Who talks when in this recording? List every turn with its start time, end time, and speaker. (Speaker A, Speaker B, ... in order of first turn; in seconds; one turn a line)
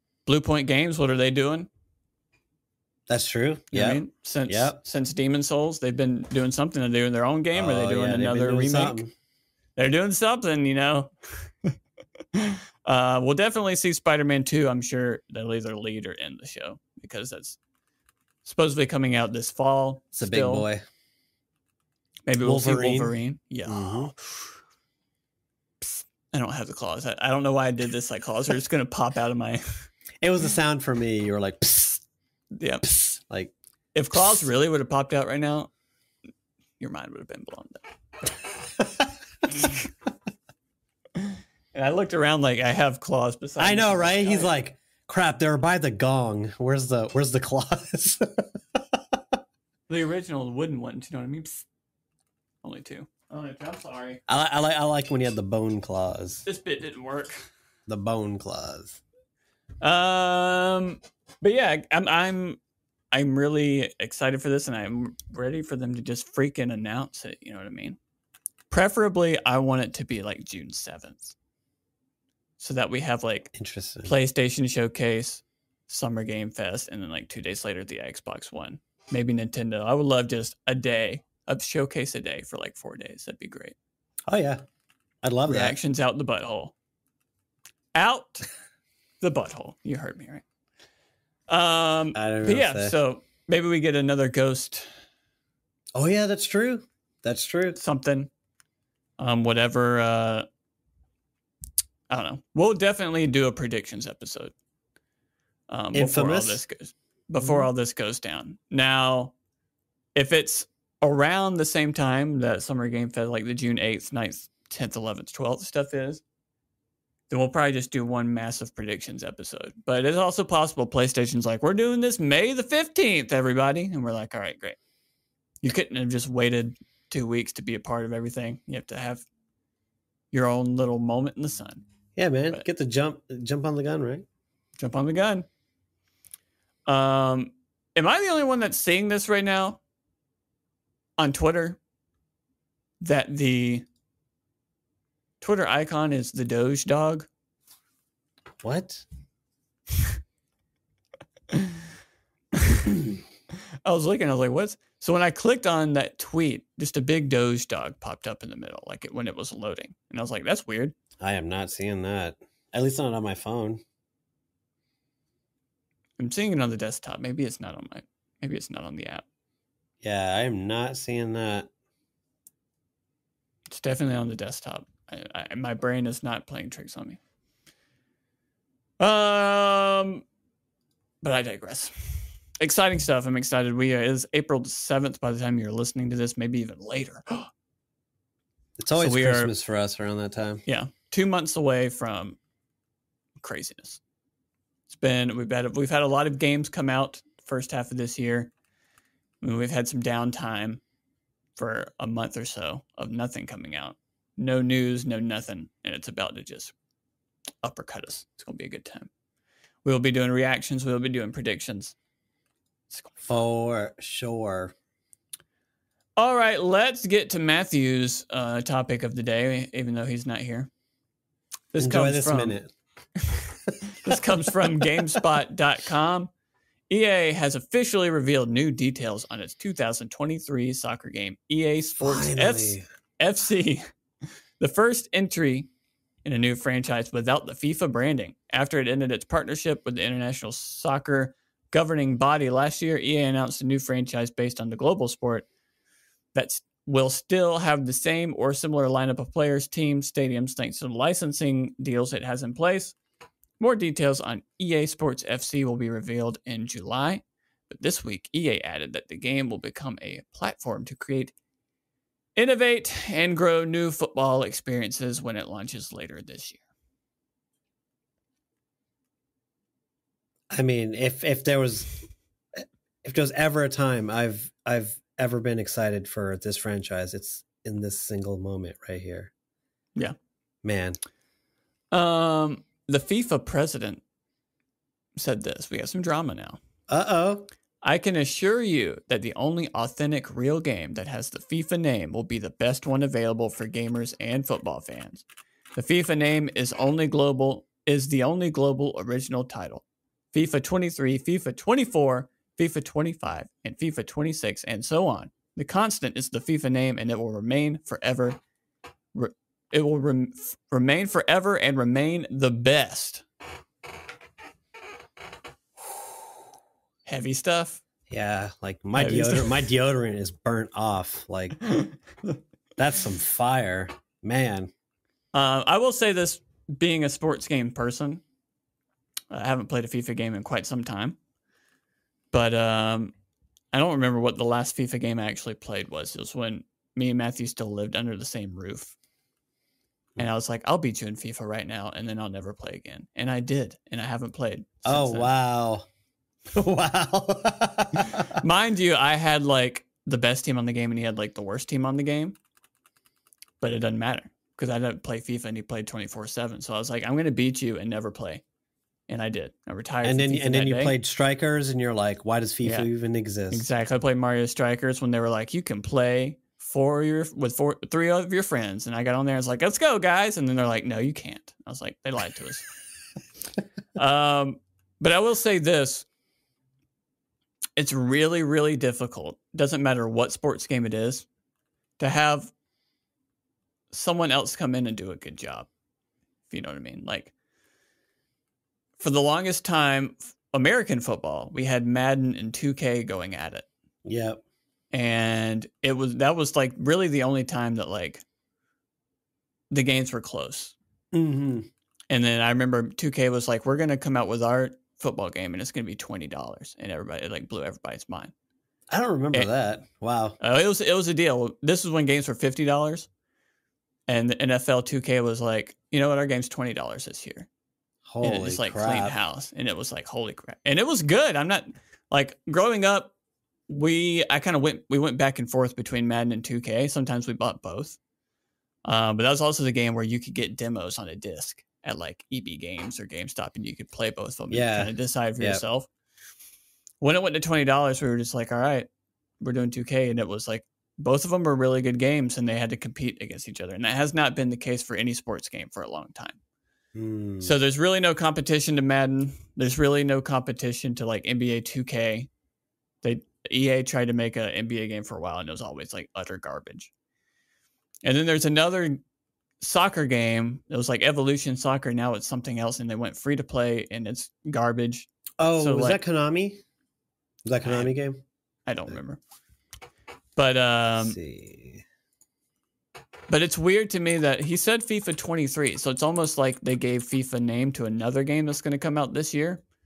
Speaker A: 0.3-1.7
Speaker B: 3.1-4.8
Speaker A: 3.7-9.0
Speaker B: 7.5-9.1
Speaker A: 9.8-11.8
Speaker A: 12.3-17.6
Speaker A: 18.4-20.7
Speaker B: 20.2-20.8
Speaker A: 22.3-24.3
Speaker B: 22.4-23.1
Speaker B: 23.7-24.1
Speaker A: 25.8-29.9
Speaker B: 30.2-32.0
Speaker A: 32.5-32.9
Speaker B: 32.8-33.5
Speaker A: 33.9-35.7
Speaker A: 36.8-37.8
Speaker A: 39.5-39.8
Speaker A: 41.2-44.5
Speaker B: 43.6-49.2
Speaker A: 49.9-51.6
Speaker A: 52.6-54.2
Speaker B: 54.3-56.4
Speaker A: 56.5-57.5
Speaker B: 57.9-59.0
Speaker A: 59.8-62.6
Speaker A: 63.1-68.0
Speaker A: 68.7-71.3
Speaker A: 72.6-73.5
Speaker B: 73.5-74.1
Speaker A: 74.0-83.8
Speaker B: 84.3-84.6
Speaker B: 85.2-85.8
Speaker A: 85.5-86.7
Speaker A: 88.0-88.5
Speaker A: 89.2-90.4
Speaker A: 91.5-94.9
Speaker B: 92.2-92.9
Speaker B: 96.0-97.8
Speaker A: 97.8-98.3
Speaker A: 99.2-100.5
Speaker A: 102.1-104.5
Speaker A: 105.7-109.3
Speaker B: 105.9-106.6
Speaker B: 107.4-107.7
Speaker A: 110.2-116.2
Speaker A: 117.3-124.8
Speaker A: 125.6-129.2
Speaker A: 130.3-131.8
Speaker B: 132.2-134.2
Speaker A: 134.8-135.5
Speaker A: 136.9-139.8
Speaker A: 141.2-141.8
Speaker A: 143.0-143.9
Speaker A: 145.4-147.3
Speaker B: 148.6-149.1
Speaker A: 151.5-151.8
Speaker A: 152.6-152.9
Speaker A: 153.8-160.9
Speaker B: 161.2-163.8
Speaker A: 166.2-169.2
Speaker B: 170.0-171.7
Speaker A: 173.7-177.2
Speaker A: 179.0-180.2
Speaker A: 181.2-187.5
Speaker B: 188.8-190.6
Speaker A: 189.0-189.5
Speaker A: 190.7-192.4
Speaker A: 193.4-194.0
Speaker A: 194.9-198.5
Speaker A: 199.4-200.8
Speaker A: 201.6-206.7
Speaker A: 207.6-209.1
Speaker A: 209.8-211.9
Speaker B: 213.2-214.7
Speaker A: 216.2-220.7
Speaker A: 221.7-222.6
Speaker B: 221.8-222.7
Speaker A: 223.3-226.3
Speaker A: 226.9-233.8
Speaker B: 232.0-232.8
Speaker A: 234.6-235.7
Speaker A: 236.2-245.5
Speaker A: 246.3-252.9
Speaker A: 253.6-261.3
Speaker A: 262.4-266.6
Speaker B: 270.5-279.3
Speaker B: 280.6-281.0
Speaker A: 281.9-284.0
Speaker A: 285.2-286.6
Speaker B: 286.9-287.5
Speaker A: 287.8-295.2
Speaker A: 295.8-308.4
Speaker A: 309.1-313.2
Speaker A: 317.1-317.8
Speaker B: 318.1-321.6
Speaker A: 319.0-319.5
Speaker A: 321.7-321.9
Speaker B: 322.8-324.7
Speaker A: 325.3-328.2
Speaker A: 329.3-331.2
Speaker A: 332.3-333.1
Speaker A: 333.7-339.0
Speaker A: 340.2-345.3
Speaker B: 344.9-345.9
Speaker B: 346.5-348.4
Speaker A: 348.1-352.4
Speaker A: 353.6-358.4
Speaker A: 359.1-361.0
Speaker B: 360.0-363.6
Speaker A: 362.6-362.9
Speaker A: 363.5-372.7
Speaker A: 374.0-376.1
Speaker A: 377.8-381.3
Speaker A: 382.0-382.5
Speaker A: 383.9-385.7
Speaker A: 386.5-387.3
Speaker A: 389.0-393.7
Speaker B: 394.1-394.4
Speaker A: 394.9-398.2
Speaker A: 399.7-400.8
Speaker B: 401.1-401.7
Speaker A: 402.1-408.3
Speaker B: 408.9-410.4
Speaker A: 410.4-413.1
Speaker A: 414.1-417.5
Speaker B: 418.1-419.1
Speaker A: 418.2-423.1
Speaker A: 423.7-428.0
Speaker A: 428.9-435.9
Speaker B: 434.5-435.6
Speaker A: 437.0-438.9
Speaker A: 439.4-446.4
Speaker B: 446.9-447.6
Speaker A: 447.4-452.3
Speaker A: 453.0-456.9
Speaker A: 458.0-459.0
Speaker A: 459.6-466.0
Speaker B: 465.4-466.6
Speaker B: 467.5-468.2
Speaker A: 467.6-467.9
Speaker A: 468.7-469.2
Speaker A: 470.4-471.2
Speaker B: 471.0-471.8
Speaker A: 473.3-479.6